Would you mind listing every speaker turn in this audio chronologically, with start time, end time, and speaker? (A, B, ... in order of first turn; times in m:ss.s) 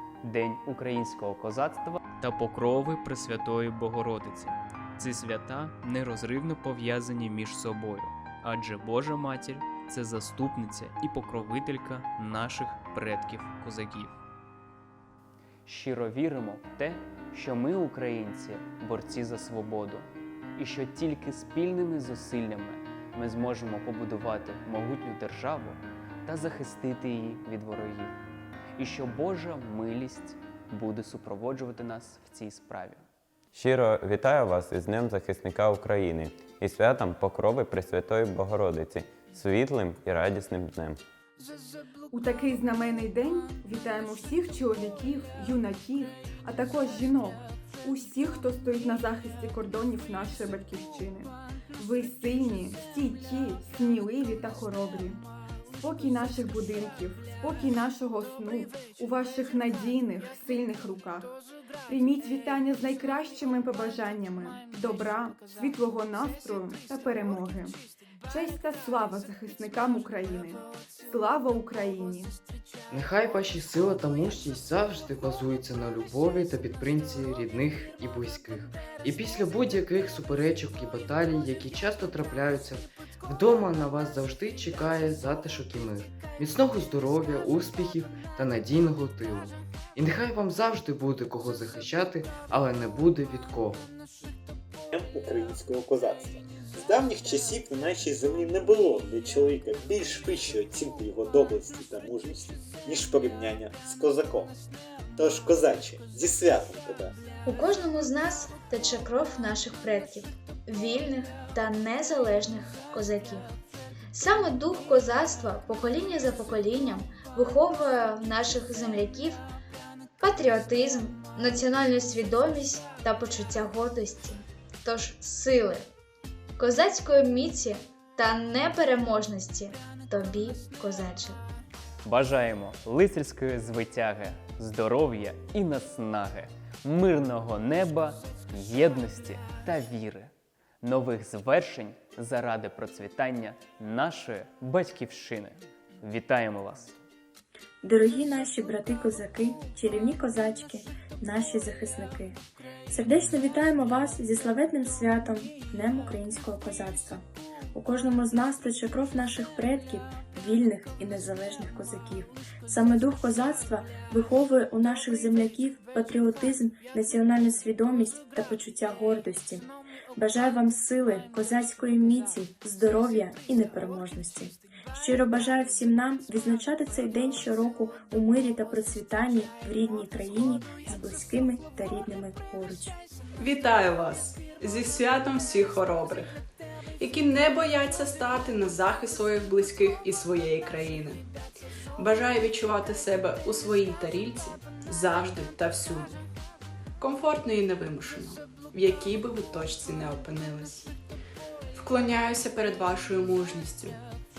0:00.2-0:14.1 A
0:15.7-0:28.1 A
0:28.8-0:33.0 A
0:33.6-0:41.0 B
0:42.1-0:55.2 C
0:55.8-1:01.3 C
1:01.9-1:12.4 C
1:12.9-1:33.8 D
1:34.9-1:44.5 E
1:45.2-1:47.1 E
1:47.4-1:53.5 F
1:54.1-1:59.4 F
2:00.2-2:05.9 F
2:06.6-2:11.4 F
2:12.0-2:27.0 A
2:27.8-3:03.0 G
3:03.4-3:06.4 H
3:07.0-3:11.2 H
3:12.0-3:16.2 H
3:17.0-3:20.9 H
3:21.7-3:24.0 H